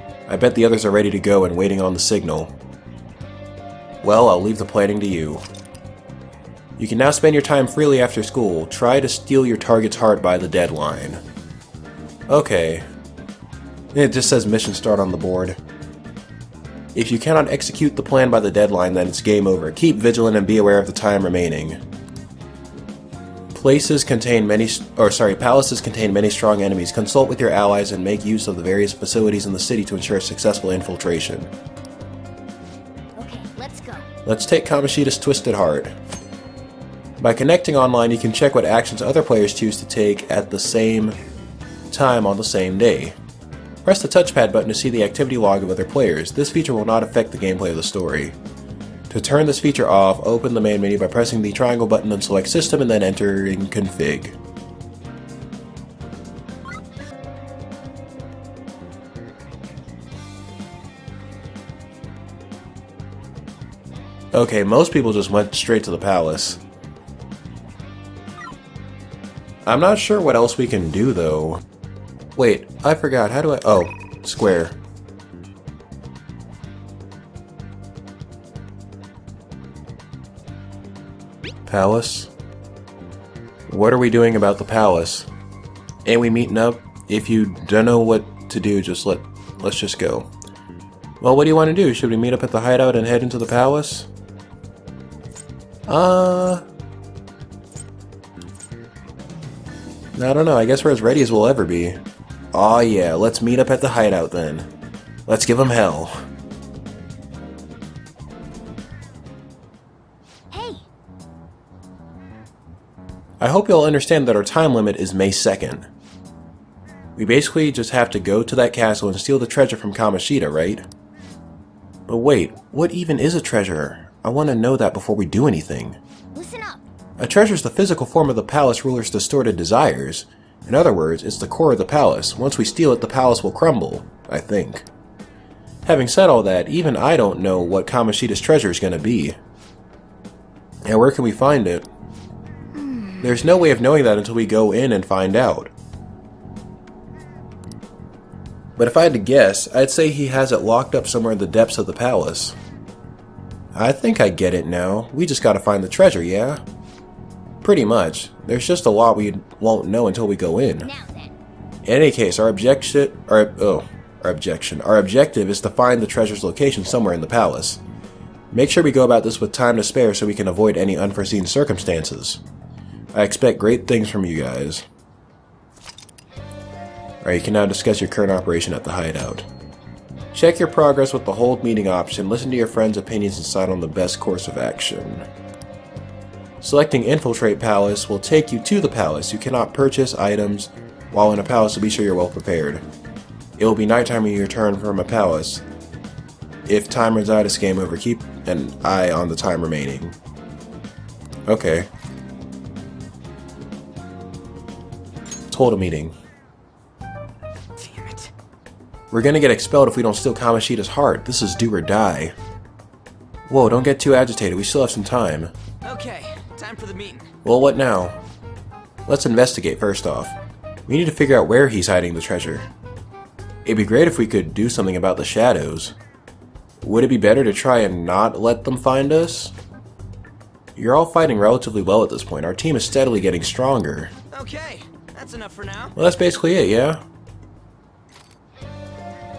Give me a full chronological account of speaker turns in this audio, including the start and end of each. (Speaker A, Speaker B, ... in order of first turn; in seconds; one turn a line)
Speaker A: 0.3-2.5
Speaker A: 4.0-5.4
Speaker A: 6.8-11.2
Speaker A: 12.3-12.9
Speaker A: 13.9-15.6
Speaker A: 16.9-21.8
Speaker A: 23.5-31.5
Speaker B: 33.1-34.1
Speaker A: 34.2-36.0
Speaker A: 37.2-41.1
Speaker A: 41.9-43.1
Speaker A: 43.8-48.4
Speaker A: 49.1-54.4
Speaker A: 64.3-66.6
Speaker A: 69.6-71.6
Speaker A: 72.3-74.8
Speaker A: 81.7-82.3
Speaker A: 83.7-85.3
Speaker A: 86.0-90.3
Speaker A: 91.2-94.1
Speaker A: 95.9-96.6
Speaker A: 100.1-102.0
Speaker A: 102.5-104.7
Speaker A: 105.2-106.2
Speaker B: 110.5-110.8
Speaker A: 113.4-115.9
Speaker A: 117.2-120.8
Speaker A: 122.1-126.0
Speaker B: 126.3-126.8
Speaker A: 127.2-134.8
Speaker A: 135.8-139.3
Speaker A: 140.8-141.9
Speaker B: 142.7-143.2
Speaker A: 143.2-145.7
Speaker A: 148.8-152.5
Speaker A: 153.7-156.6
Speaker A: 157.6-160.9
Speaker B: 160.8-161.3
Speaker A: 161.8-167.8
Speaker A: 168.5-172.4
Speaker A: 173.1-174.8
Speaker A: 177.2-179.5
Speaker A: 180.3-185.3
Speaker A: 186.6-192.8
Speaker A: 193.6-195.6
Speaker A: 196.7-200.2
Speaker A: 201.5-201.9
Speaker A: 205.5-206.1
Speaker C: 207.8-208.3
Speaker A: 209.1-212.3
Speaker A: 213.5-215.5
Speaker C: 215.8-217.3
Speaker A: 217.4-218.2
Speaker A: 219.1-220.3
Speaker A: 220.9-222.7
Speaker A: 223.6-225.9
Speaker A: 226.8-229.5
Speaker A: 230.8-234.1
Speaker C: 234.3-235.9
Speaker A: 235.9-237.0